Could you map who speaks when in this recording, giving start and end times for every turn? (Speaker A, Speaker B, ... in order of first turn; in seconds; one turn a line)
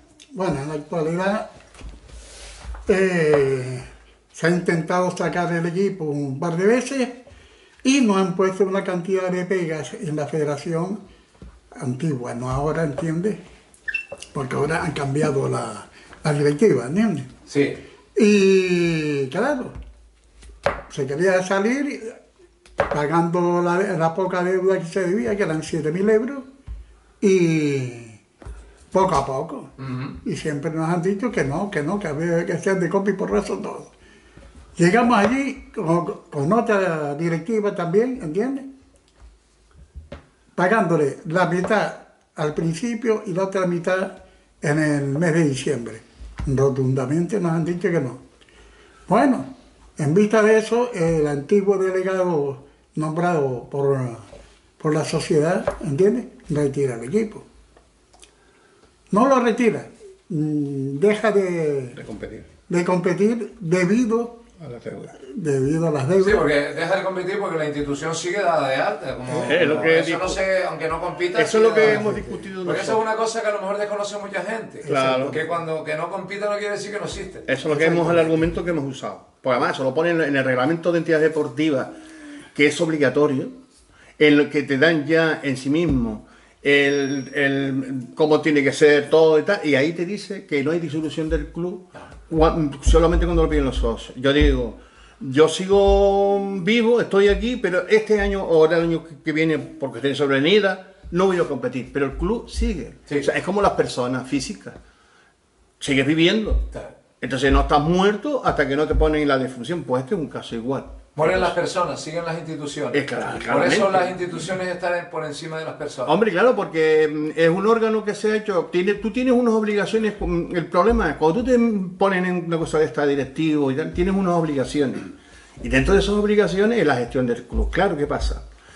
Speaker A: 0.3-1.5
Speaker A: 2.9-7.2
Speaker A: 7.8-11.0
Speaker A: 11.8-13.4
Speaker A: 14.3-17.3
Speaker B: 17.5-17.8
Speaker A: 18.1-19.8
Speaker A: 20.9-22.2
Speaker A: 22.9-26.4
Speaker A: 27.2-28.2
Speaker A: 28.9-29.7
Speaker B: 29.8-30.2
Speaker A: 30.2-33.9
Speaker A: 34.8-38.7
Speaker A: 40.5-48.2
Speaker A: 49.1-54.2
Speaker A: 54.8-57.4
Speaker A: 59.1-62.0
Speaker C: 61.9-62.5
Speaker A: 62.7-64.4
Speaker C: 64.6-65.2
Speaker A: 65.2-66.5
Speaker B: 66.2-72.0
Speaker A: 69.3-69.8
Speaker C: 69.4-70.4
Speaker C: 71.3-73.0
Speaker A: 71.8-72.5
Speaker B: 72.6-77.5
Speaker A: 74.8-75.4
Speaker C: 74.8-75.4
Speaker C: 77.5-81.9
Speaker A: 77.7-78.1
Speaker C: 82.5-83.5
Speaker C: 84.2-104.8
Speaker C: 105.8-106.6
Speaker C: 107.2-111.5
Speaker B: 111.1-116.2
Speaker C: 112.9-114.2
Speaker C: 116.0-128.4